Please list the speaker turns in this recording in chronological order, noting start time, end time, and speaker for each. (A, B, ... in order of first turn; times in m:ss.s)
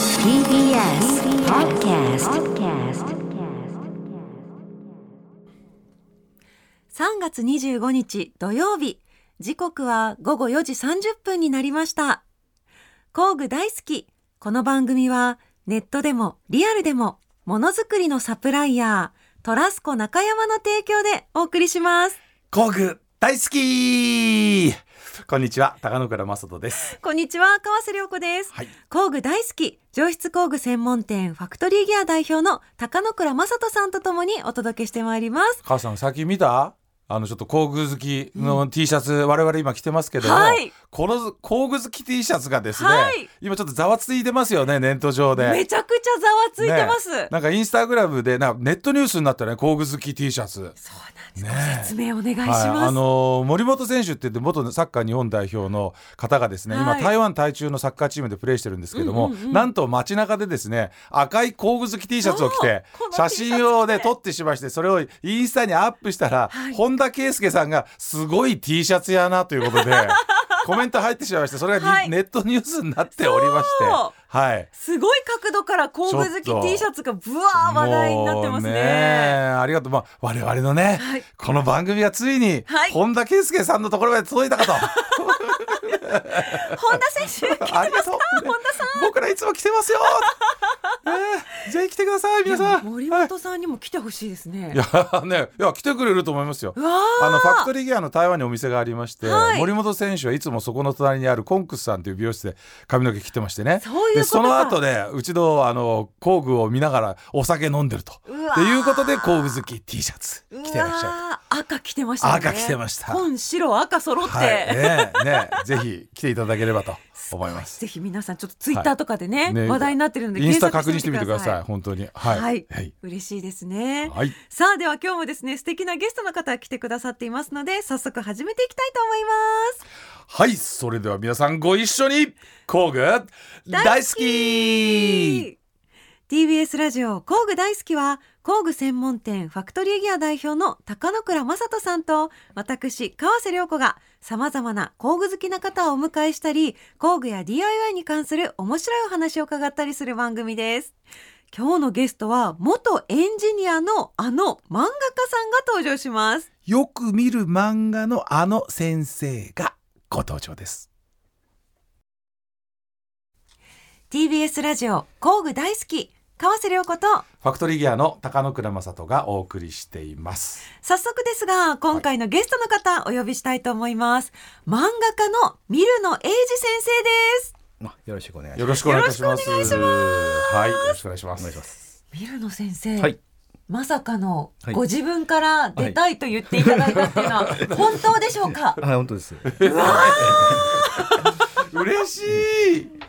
0:00.2-0:03.5 A
0:06.9-0:12.2 A
0:13.1-0:22.2 A
0:22.5-0:26.9 B
0:26.8-0:35.6 A
0:35.6-0:45.6 B
0:38.4-0:38.6 A
0:40.2-0:40.7 A
0:42.7-0:43.3 A
0:45.3-0:47.3 A
0:46.6-0:50.8 B
0:50.8-0:53.0 A
0:51.4-1:14.7 B
0:56.7-0:57.1 A
0:58.9-0:59.7 A
1:02.2-1:04.1 A
1:06.5-1:06.8 A
1:09.6-1:10.4 A
1:11.8-1:12.1 A
1:13.2-1:14.1 A
1:14.8-1:19.4 A
1:16.1-1:16.8 B
1:17.6-1:30.4 B
1:21.0-1:21.2 A
1:22.7-1:23.0 A
1:24.6-1:25.2 A
1:26.3-1:29.1 A
1:31.0-1:33.3 B
1:32.4-1:34.8 A
1:34.7-1:51.2 B
1:36.8-1:37.7 A
1:39.2-1:39.7 A
1:43.8-1:44.8 A
1:48.3-1:49.6 A
1:50.5-1:55.6 A
1:52.2-1:53.2 B
1:54.2-1:57.8 B
1:57.2-2:01.6 A
1:59.4-2:02.9 B
2:02.2-2:09.8 A
2:04.0-2:04.3 B
2:10.3-2:15.4 B
2:13.7-2:15.5 A
2:16.3-2:30.9 A
2:31.5-2:36.5 A
2:36.6-2:40.9 B
2:44.1-2:47.2 A
2:47.4-2:50.7 B
2:50.8-2:57.5 A
2:57.8-2:58.8 C
2:58.6-3:01.6 B
2:58.8-3:01.0 A
3:01.4-3:01.7 C
3:02.1-3:03.2 A
3:03.7-3:08.8 A
3:06.5-3:07.0 C
3:07.0-3:07.8 B
3:07.6-3:08.0 C
3:08.8-3:10.8 C
3:09.4-3:12.9 B
3:09.6-3:11.2 A